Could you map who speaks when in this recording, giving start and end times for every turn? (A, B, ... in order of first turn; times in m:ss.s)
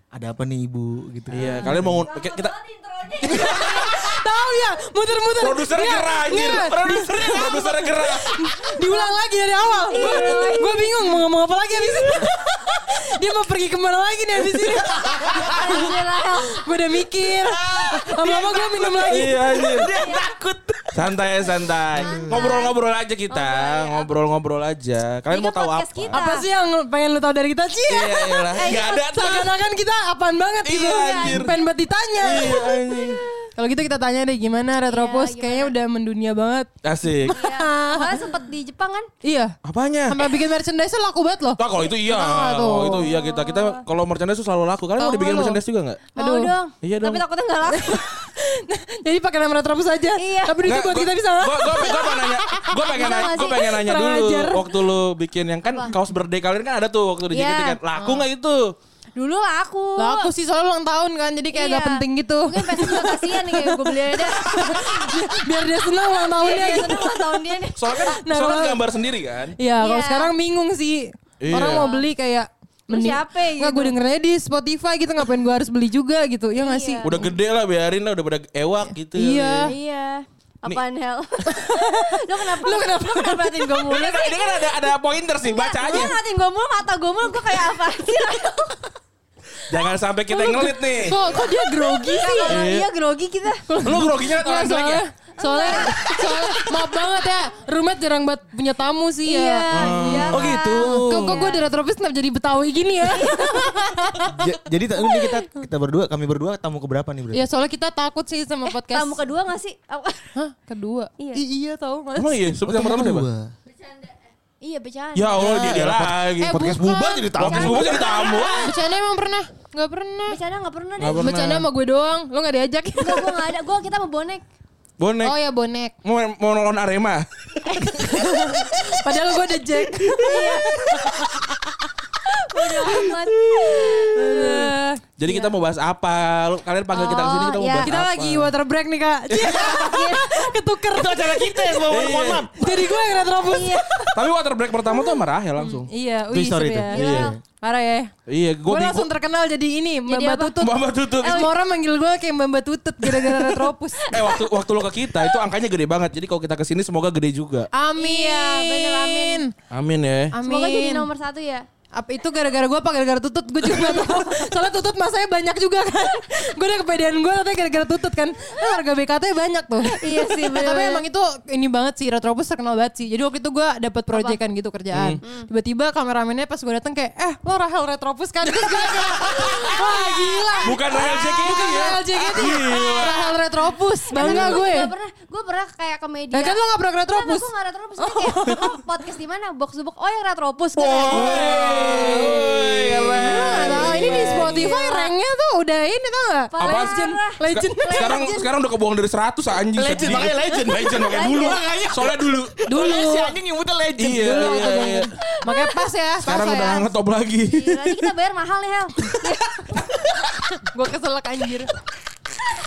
0:00.1-0:02.0 A
0:01.3-0:02.5 B
0:01.4-0:01.8 C
0:02.1-0:03.6 D
0:03.2-0:04.1 B
0:03.2-0:15.9 C
0:05.4-0:08.3 B
0:08.8-0:09.1 D
0:09.8-0:11.1 D
0:11.9-0:12.2 D
0:15.0-0:15.9 A
0:15.2-0:16.6 D
0:16.5-0:19.6 C
0:17.3-0:22.5 A
0:19.1-0:19.9 B
0:20.0-0:20.2 D
0:20.9-0:26.2 B
0:22.0-0:22.8 D
0:23.3-0:24.1 D
0:25.3-0:26.5 D
0:26.1-0:32.6 C
0:27.9-0:29.5 B
0:28.6-0:29.0 D
0:30.6-0:31.5 B
0:30.8-0:31.6 D
0:32.2-0:33.2 B
0:32.4-0:33.4 D
0:33.6-0:36.7 C
0:34.8-0:35.7 D
0:36.8-0:37.3 B
0:37.2-0:38.2 C
0:37.3-0:39.1 D
0:39.2-0:39.5 C
0:39.6-0:40.2 B
0:40.1-0:43.2 C
0:41.6-0:46.0 B
0:42.8-0:43.8 D
0:45.0-0:45.6 C
0:46.1-0:48.0 D
0:46.2-0:46.5 C
0:46.8-0:47.2 B
0:47.6-0:54.6 C
0:50.2-0:50.6 D
0:50.6-0:58.7 B
0:51.8-0:53.7 D
0:55.6-0:55.9 D
0:57.3-0:58.3 D
0:59.2-1:00.3 D
1:00.0-1:08.8 C
1:01.5-1:05.1 D
1:06.3-1:08.1 D
1:07.8-1:09.6 B
1:09.6-1:17.3 C
1:09.8-1:10.3 D
1:11.4-1:11.9 B
1:11.5-1:12.1 D
1:12.9-1:13.9 D
1:16.6-1:17.2 D
1:17.0-1:19.7 B
1:18.8-1:19.7 C
1:19.6-1:24.9 D
1:21.4-1:24.0 C
1:23.9-1:26.1 B
1:25.4-1:28.8 D
1:29.7-1:31.2 B
1:30.3-1:32.6 C
1:30.3-1:33.6 D
1:32.5-1:32.9 B
1:33.7-1:40.4 C
1:33.8-1:35.0 B
1:35.4-1:37.0 D
1:39.2-1:41.6 D
1:39.7-1:40.5 B
1:40.3-1:41.5 A
1:41.0-1:44.4 C
1:43.1-1:44.1 D
1:44.2-1:47.4 A
1:45.0-1:45.4 D
1:47.3-1:49.2 C
1:48.6-1:50.3 D
1:50.3-1:52.5 C
1:52.1-1:53.3 B
1:52.6-1:53.5 A
1:54.6-1:55.6 D
1:55.1-1:56.6 B
1:55.3-1:58.2 A
1:56.4-1:57.6 C
1:57.3-1:58.7 B
1:57.5-1:58.8 D
1:58.6-2:00.4 C
2:00.3-2:01.4 D
2:01.0-2:01.7 B
2:01.1-2:03.4 C
2:03.0-2:04.4 D
2:05.0-2:05.3 B
2:05.2-2:05.9 C
2:06.0-2:08.2 B
2:07.6-2:08.0 D
2:08.0-2:11.4 C
2:10.2-2:11.1 D
2:12.3-2:14.3 D
2:14.1-2:15.0 C
2:14.2-2:18.5 B
2:15.3-2:15.5 D
2:16.9-2:17.9 D
2:17.8-2:21.9 C
2:19.4-2:19.7 B
2:19.5-2:20.5 D
2:20.9-2:22.5 A
2:21.8-2:22.5 B
2:22.5-2:23.8 C
2:22.6-2:24.1 D
2:24.1-2:25.9 B
2:24.8-2:25.2 D
2:25.6-2:27.1 C
2:26.3-2:27.4 A
2:26.9-2:27.4 D
2:27.0-2:27.3 B
2:27.6-2:28.1 C
2:28.3-2:29.1 B
2:28.7-2:34.1 C
2:30.1-2:30.6 D
2:30.6-2:31.5 B
2:31.2-2:31.5 D
2:33.1-2:34.5 D
2:34.1-2:37.7 B
2:35.2-2:35.4 D
2:37.7-2:39.5 C
2:38.0-2:39.4 D
2:39.7-2:40.4 B
2:40.3-2:41.1 C
2:40.4-2:41.6 D
2:41.9-3:04.9 C
2:43.6-2:44.4 D
2:49.8-2:51.0 D
2:54.1-2:54.4 D
2:54.9-2:55.2 B
2:55.2-2:55.5 D
2:58.4-2:59.9 B
2:59.6-3:01.4 D
3:00.6-3:03.2 B
3:02.6-3:03.4 D
3:04.1-3:12.3 D
3:04.2-3:04.5 B
3:06.3-3:08.8 C
3:10.8-3:14.6 A
3:11.0-3:14.6 B
3:11.8-3:12.1 C
3:13.2-3:18.4 C
3:13.4-3:15.1 D
3:16.5-3:18.5 D
3:16.6-3:16.9 B
3:17.5-3:22.5 B
3:19.7-3:24.8 A
3:20.4-3:21.6 D
3:22.7-3:23.3 C
3:24.0-3:25.1 B
3:24.2-3:26.9 C
3:25.4-3:25.8 D
3:26.2-3:28.1 B
3:27.5-3:29.8 D
3:30.6-3:31.7 C